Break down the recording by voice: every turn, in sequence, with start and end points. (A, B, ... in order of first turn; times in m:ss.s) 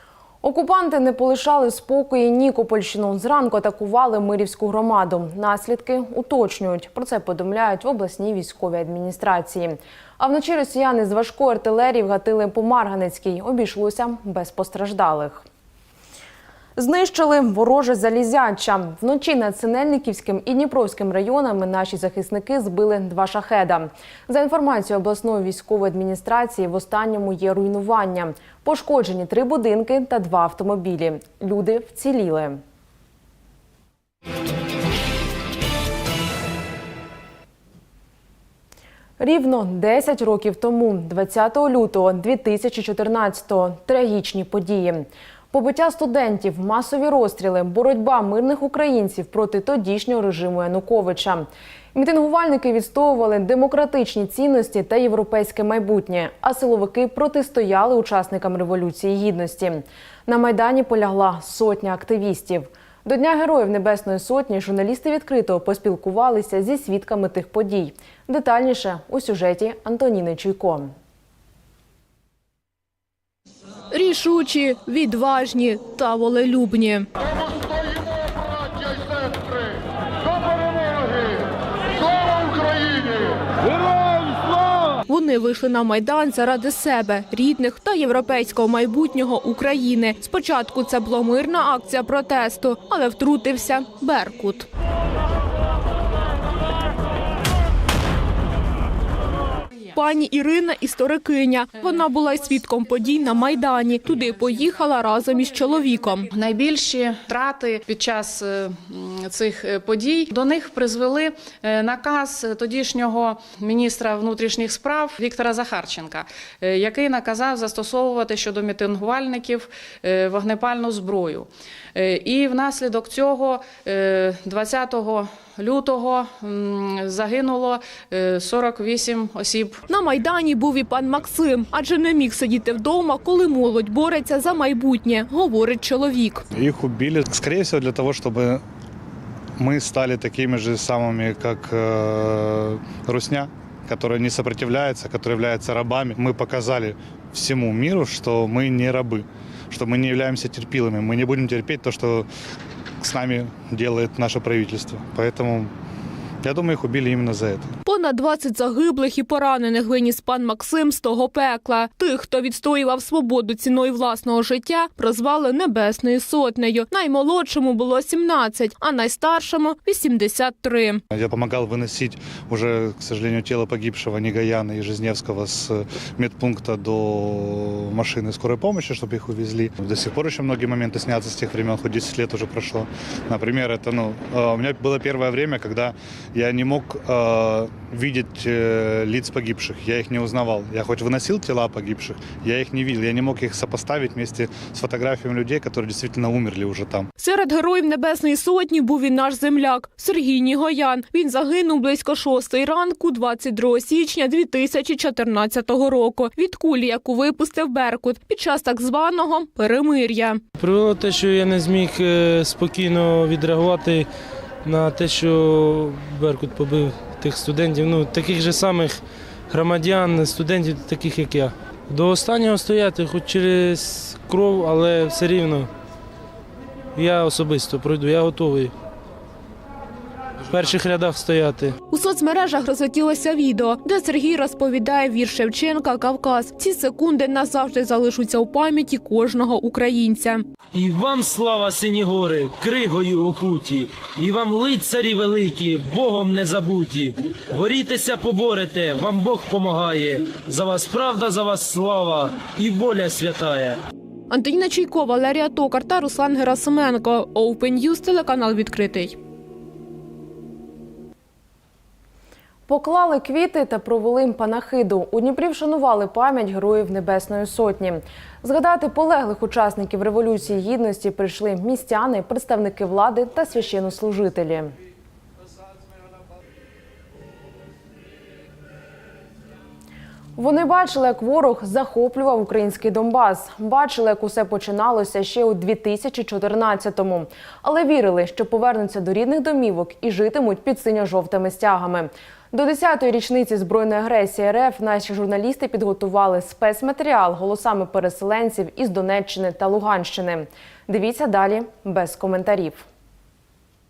0:00.4-0:15.4 A
0:16.8-0:32.6 A
0:39.2-1:10.9 A
1:13.9-1:17.1 B
1:25.1-1:34.7 B
1:39.9-1:46.3 B
1:46.3-2:09.8 C
2:09.9-2:16.5 B
2:16.5-2:18.6 D
2:19.6-2:32.3 D
2:33.0-2:35.7 D
2:36.4-2:37.8 D
2:37.9-2:51.0 B
2:51.1-3:17.1 D
3:17.2-3:30.4 B
3:30.6-3:34.1 E
3:34.6-3:45.7 E
3:47.0-3:48.7 E
3:50.5-3:51.8 E
3:51.9-4:00.4 B
4:00.7-4:13.8 F
4:14.3-4:19.2 B
4:22.7-4:34.8 A
4:40.4-5:02.9 A